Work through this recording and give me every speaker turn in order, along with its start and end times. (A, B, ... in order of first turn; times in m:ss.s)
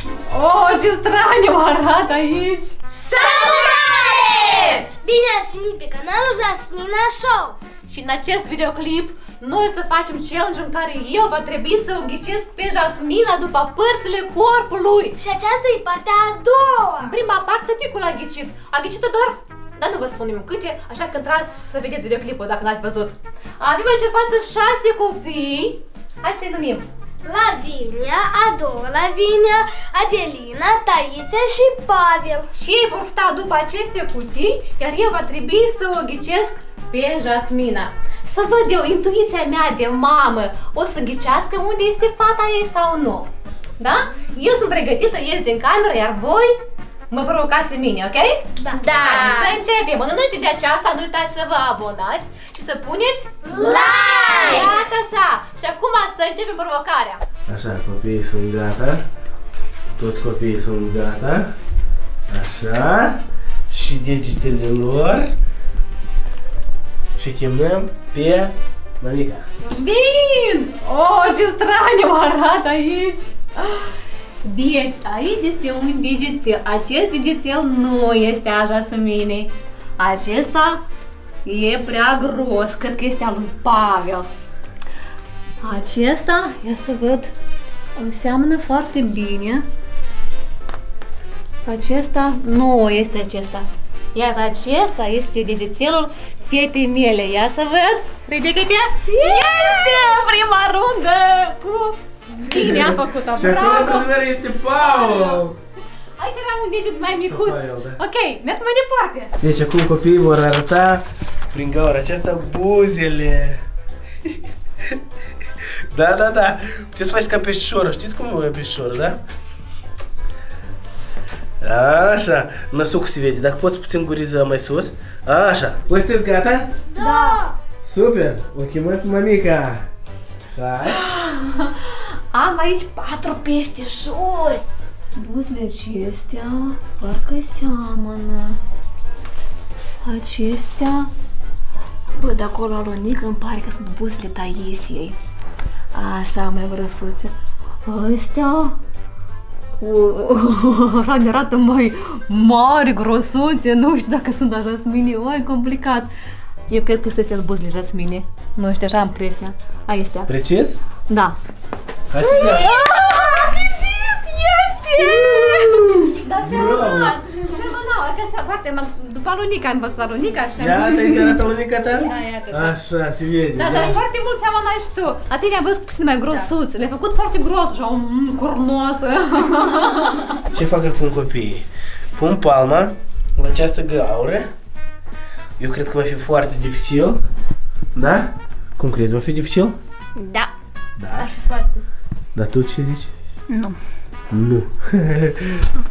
0:00.3-0:04.8 A
0:03.0-0:07.6 B
0:07.8-0:15.2 A
0:15.2-0:17.2 B
0:17.0-0:26.9 A
0:27.2-0:32.5 B
0:32.5-0:46.6 A
0:47.1-0:57.2 A
0:48.6-0:49.6 B
0:53.5-0:54.8 B
0:57.5-0:59.0 C
1:00.0-1:01.5 C
1:02.3-1:05.3 C
1:07.2-1:09.5 C
1:09.6-1:13.9 A
1:14.4-1:20.8 A
1:21.4-1:24.3 A
1:25.6-1:27.3 A
1:28.0-1:29.6 A
1:31.6-1:44.1 A
1:39.1-1:40.1 B
1:42.4-1:45.6 C
1:44.8-1:45.4 A
1:46.2-1:49.4 A
1:47.2-1:48.0 C
1:49.4-1:53.6 C
1:55.9-1:59.2 C
2:01.6-2:06.7 C
2:06.9-2:07.5 B
2:07.0-2:07.5 A
2:07.8-2:09.9 C
2:10.5-2:11.0 C
2:10.9-2:14.6 A
2:15.2-2:18.6 A
2:20.0-2:21.1 A
2:22.2-2:25.2 A
2:25.9-2:27.3 A
2:27.8-2:28.8 A
2:29.8-2:36.1 A
2:36.7-2:40.3 A
2:40.3-2:40.8 C
2:41.1-2:41.4 A
2:42.1-2:42.8 C
2:42.2-2:43.5 B
2:42.4-2:51.4 A
2:45.0-2:47.2 C
2:45.0-2:46.0 B
2:46.5-2:47.4 B
2:50.6-2:54.0 C
2:51.9-2:52.8 A
2:53.5-3:00.4 A
3:00.5-3:04.5 C
3:05.6-3:07.2 C
3:07.9-3:09.8 C
3:10.2-3:10.5 B
3:11.0-3:11.3 C
3:11.2-3:11.8 B
3:12.3-3:13.1 C
3:13.5-3:13.8 B
3:14.3-3:15.7 C